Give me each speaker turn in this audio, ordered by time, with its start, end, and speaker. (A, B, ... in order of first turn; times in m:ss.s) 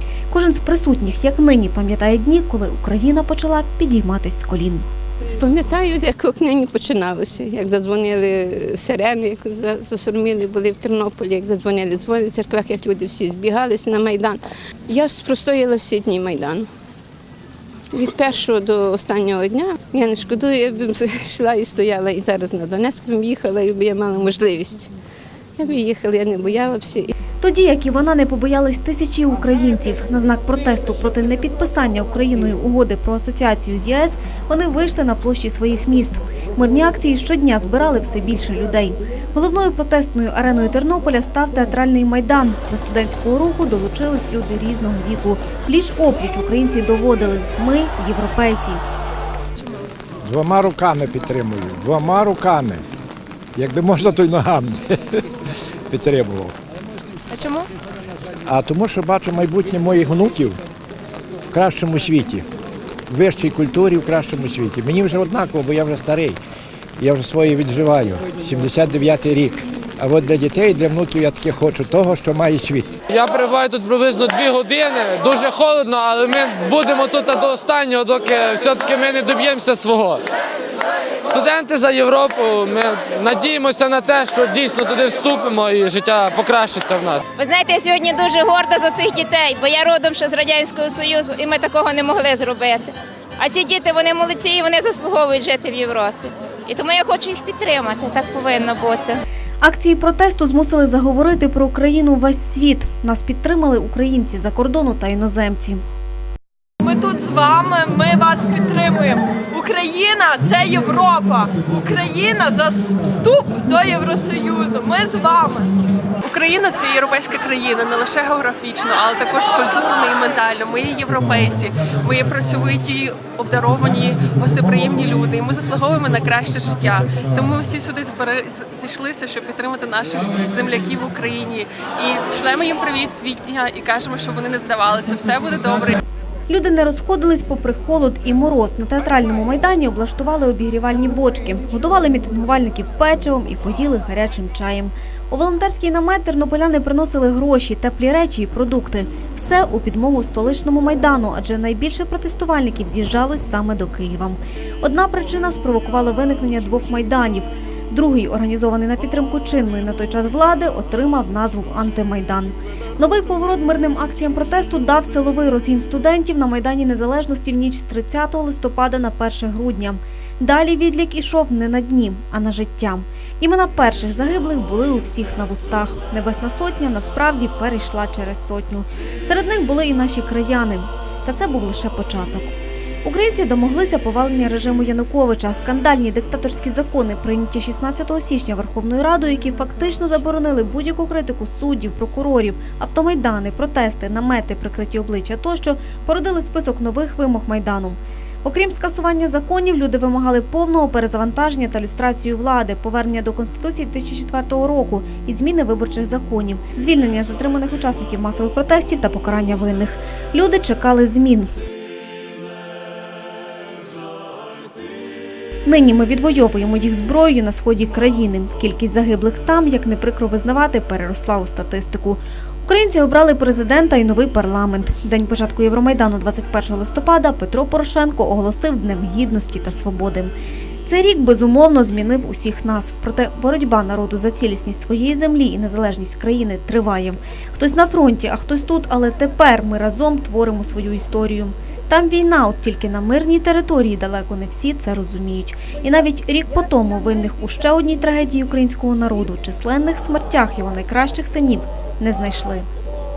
0:00.3-0:04.9 A
0:05.2-0:16.7 B
0:17.9-0:24.9 B
0:25.6-0:27.1 B
0:27.4-0:48.8 A
0:50.2-0:52.8 C
0:53.6-0:55.2 C
0:55.9-0:56.5 C
0:57.4-0:57.6 D
0:58.5-1:00.6 C
1:01.5-1:02.4 C
1:03.1-1:06.4 C
1:07.0-1:13.0 C
1:13.1-1:20.2 E
1:21.2-1:27.2 E
1:27.4-1:39.2 F
1:39.6-1:45.8 A
1:46.8-1:55.7 D
1:56.2-2:16.0 G
2:16.5-3:02.5 A
3:03.0-3:31.5 A
3:35.7-3:50.3 A
3:50.8-4:12.7 A